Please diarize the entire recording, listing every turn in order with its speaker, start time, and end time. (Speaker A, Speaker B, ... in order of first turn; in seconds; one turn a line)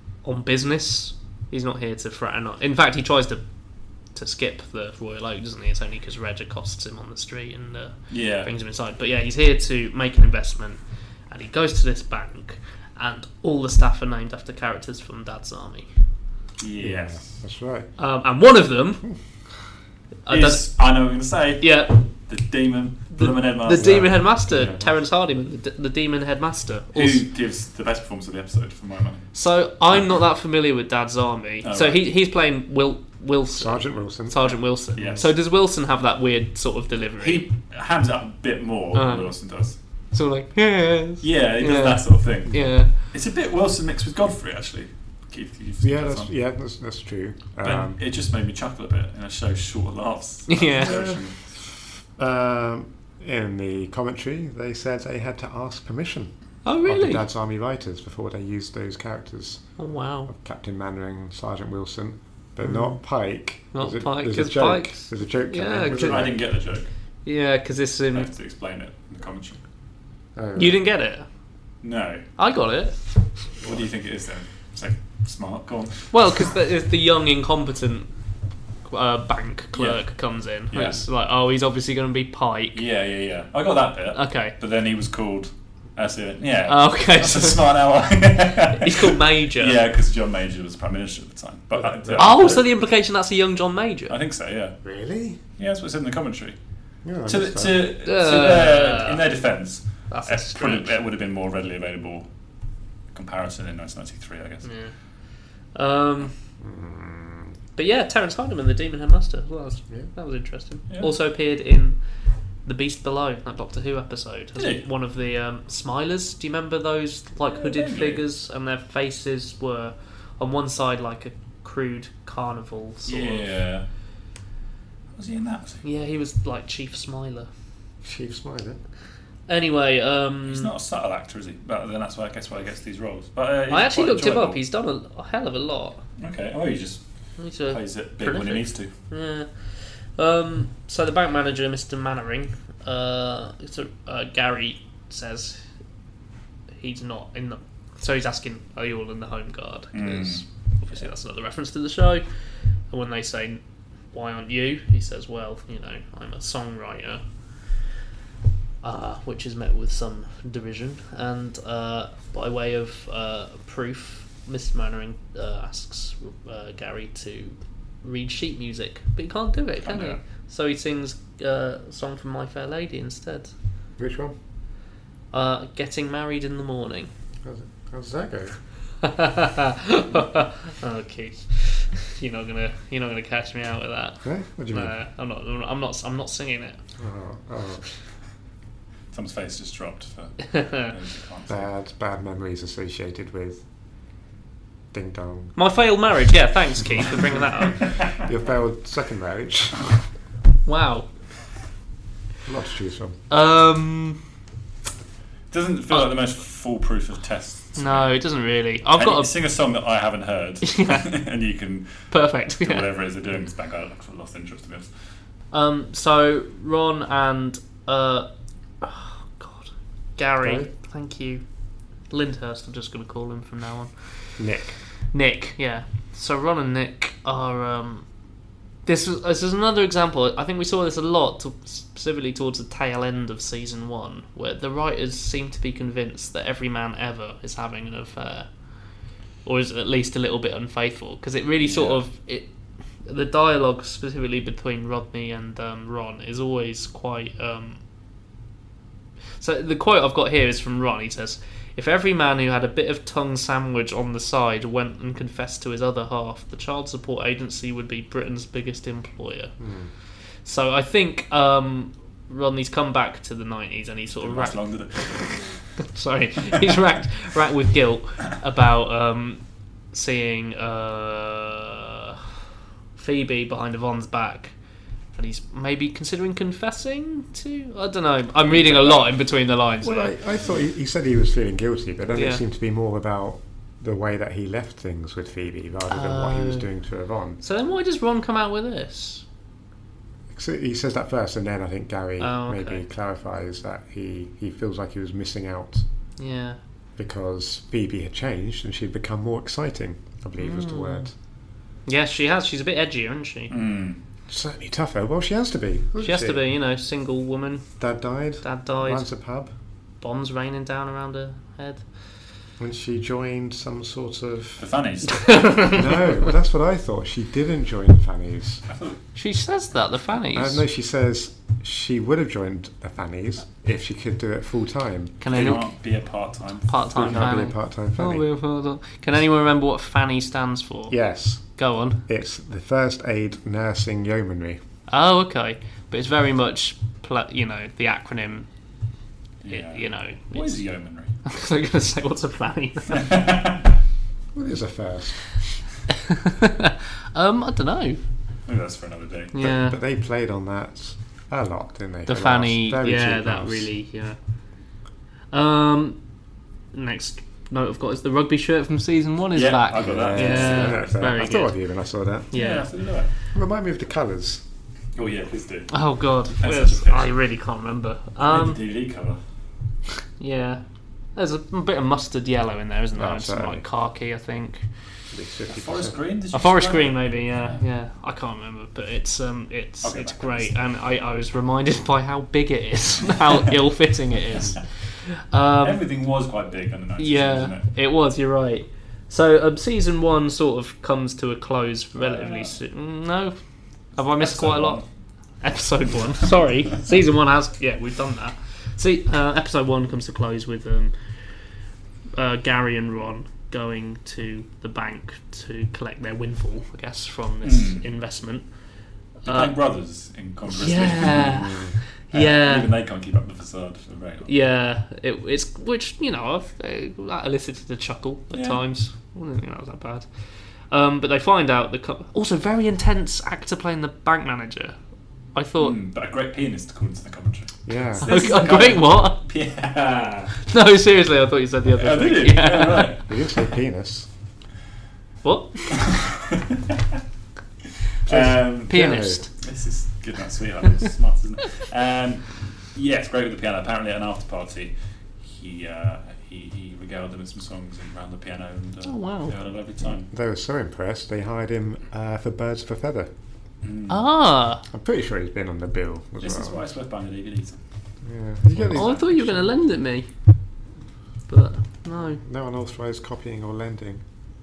Speaker A: 0.2-3.4
Speaker A: 4.1-10.8
Speaker B: 8.1-8.5
Speaker A: 11.3-15.9
Speaker B: 16.6-17.4
Speaker C: 16.8-17.9
Speaker A: 18.0-19.0
Speaker A: 20.2-20.7
Speaker B: 20.3-24.8
Speaker A: 21.6-22.0
Speaker A: 23.1-27.2
Speaker C: 23.8-24.2
Speaker B: 26.9-29.2
Speaker A: 29.3-37.5
Speaker B: 31.6-32.0
Speaker C: 33.5-34.5
Speaker B: 35.0-35.3
Speaker B: 37.2-39.8
Speaker A: 38.9-39.3
Speaker A: 40.1-42.9
Speaker B: 41.2-46.3
Speaker C: 45.8-48.0
Speaker B: 47.6-51.4
Speaker A: 50.5-51.0
Speaker C: 50.8-51.2
Speaker C: 52.2-56.3
Speaker A: 56.6-57.2
Speaker C: 56.8-59.7
Speaker A: 59.8-60.3
Speaker C: 60.3-66.3
Speaker A: 62.6-63.0
Speaker A: 63.7-66.4
Speaker B: 65.9-66.9
Speaker A: 67.2-68.3
Speaker B: 68.1-69.6
Speaker C: 70.4-70.8
Speaker A: 70.6-71.2
Speaker B: 71.8-72.2
Speaker A: 72.4-73.0
Speaker B: 73.6-76.4
Speaker A: 76.1-78.1
Speaker A: 78.9-82.8
Speaker B: 79.8-80.0
Speaker B: 80.7-81.0
Speaker B: 82.7-92.6
Speaker A: 84.1-84.5
Speaker A: 86.7-87.6
Speaker A: 88.8-89.8
Speaker C: 91.8-92.4
Speaker A: 92.2-94.2
Speaker B: 94.1-94.8
Speaker C: 94.8-95.4
Speaker B: 95.6-96.6
Speaker C: 97.0-97.8
Speaker B: 97.2-102.3
Speaker A: 98.0-99.2
Speaker A: 100.1-100.9
Speaker B: 103.1-104.7
Speaker A: 104.6-104.9
Speaker A: 105.7-106.3
Speaker C: 106.6-107.5
Speaker A: 107.8-112.0
Speaker A: 112.6-123.5
Speaker B: 114.6-114.8
Speaker B: 117.5-118.2
Speaker B: 123.1-123.8
Speaker B: 125.2-125.8
Speaker A: 125.8-127.5
Speaker C: 128.0-128.8
Speaker A: 129.5-130.7
Speaker B: 130.5-134.6
Speaker A: 133.7-136.0
Speaker B: 136.2-137.0
Speaker A: 137.4-145.6
Speaker B: 137.7-138.9
Speaker A: 146.8-152.2
Speaker B: 149.9-150.4
Speaker A: 152.9-153.6
Speaker A: 154.1-157.2
Speaker A: 158.8-173.5
Speaker B: 169.8-170.2
Speaker C: 174.0-174.4
Speaker A: 175.3-177.1
Speaker C: 177.4-178.6
Speaker A: 179.0-186.8
Speaker C: 184.2-184.9
Speaker C: 187.0-187.8
Speaker B: 189.1-191.7
Speaker A: 190.5-190.9
Speaker C: 191.5-193.6
Speaker C: 194.9-195.6
Speaker A: 195.6-197.8
Speaker C: 198.2-199.9
Speaker A: 200.7-201.1
Speaker C: 202.4-203.2
Speaker A: 203.3-204.2
Speaker B: 205.5-208.1
Speaker A: 207.8-209.3
Speaker B: 208.9-214.9
Speaker A: 210.6-211.1
Speaker A: 212.1-212.8
Speaker A: 215.5-218.3
Speaker A: 218.8-221.4
Speaker C: 220.4-220.7
Speaker A: 222.1-224.3
Speaker C: 224.4-224.8
Speaker A: 225.1-228.1
Speaker A: 228.9-238.5
Speaker A: 239.4-242.5
Speaker B: 241.6-242.0
Speaker A: 243.1-247.8
Speaker A: 249.4-259.6
Speaker C: 259.6-259.9
Speaker A: 260.4-272.2
Speaker B: 264.2-265.6
Speaker A: 272.9-274.5
Speaker A: 275.1-280.1
Speaker B: 278.5-279.2
Speaker C: 279.8-287.4
Speaker A: 282.1-282.4
Speaker A: 285.9-286.7
Speaker A: 287.4-289.2
Speaker C: 290.3-295.8
Speaker A: 292.2-292.8
Speaker A: 296.2-296.6
Speaker C: 297.0-301.1
Speaker A: 300.4-301.1
Speaker A: 301.9-303.5
Speaker B: 303.5-304.0
Speaker C: 304.3-306.4
Speaker A: 306.0-307.6
Speaker C: 307.8-309.5
Speaker A: 308.4-309.1
Speaker A: 310.0-311.8
Speaker C: 312.6-314.6
Speaker B: 314.6-315.6
Speaker A: 315.2-315.8
Speaker C: 315.7-318.6
Speaker B: 318.7-319.0
Speaker A: 319.1-320.6
Speaker C: 320.3-325.6
Speaker A: 325.2-325.7
Speaker B: 325.3-327.3
Speaker A: 326.7-330.9
Speaker C: 326.9-328.2
Speaker C: 330.9-331.4
Speaker A: 331.6-332.0
Speaker C: 332.1-334.6
Speaker A: 334.9-338.5
Speaker B: 339.4-341.1
Speaker A: 339.5-340.6
Speaker A: 341.2-343.1
Speaker B: 342.9-343.6
Speaker C: 344.3-345.3
Speaker A: 346.1-348.0
Speaker B: 348.5-349.3
Speaker A: 349.3-349.8
Speaker C: 349.4-353.7
Speaker A: 352.1-354.2
Speaker A: 355.3-356.0
Speaker A: 356.7-361.6
Speaker B: 359.4-361.1
Speaker C: 359.8-362.3
Speaker A: 362.3-362.7
Speaker B: 362.3-363.1
Speaker C: 363.3-364.4
Speaker B: 364.9-365.7
Speaker A: 365.7-368.6
Speaker B: 366.3-367.1
Speaker B: 368.2-369.2
Speaker A: 370.2-370.6
Speaker A: 371.1-374.6
Speaker C: 372.9-373.6
Speaker C: 375.1-375.9
Speaker B: 375.5-377.6
Speaker A: 376.3-385.8
Speaker B: 379.8-380.5
Speaker B: 385.6-387.7
Speaker A: 387.0-393.4
Speaker B: 391.9-392.6
Speaker A: 394.0-394.8
Speaker B: 394.2-394.9
Speaker A: 395.4-400.9
Speaker A: 402.1-408.4
Speaker B: 407.4-407.9
Speaker A: 409.2-409.5
Speaker B: 409.3-411.6
Speaker A: 410.6-412.7
Speaker C: 411.2-411.8
Speaker B: 412.1-414.4
Speaker A: 414.3-420.1
Speaker B: 418.3-418.6
Speaker A: 420.7-424.8
Speaker A: 425.3-425.8
Speaker B: 425.6-430.4
Speaker C: 427.6-428.1
Speaker A: 428.0-429.2
Speaker A: 430.4-432.9
Speaker B: 431.8-433.4
Speaker C: 433.1-434.1
Speaker A: 435.2-435.7
Speaker B: 435.7-436.6
Speaker B: 438.1-450.1
Speaker C: 438.1-439.2
Speaker A: 438.7-439.3
Speaker A: 448.8-449.3
Speaker C: 450.1-453.1
Speaker B: 453.6-454.1
Speaker A: 453.9-454.6
Speaker C: 454.7-456.6
Speaker B: 456.2-457.6
Speaker C: 458.0-459.5
Speaker B: 458.5-459.0
Speaker A: 458.7-460.1
Speaker A: 461.3-462.2
Speaker C: 462.0-464.0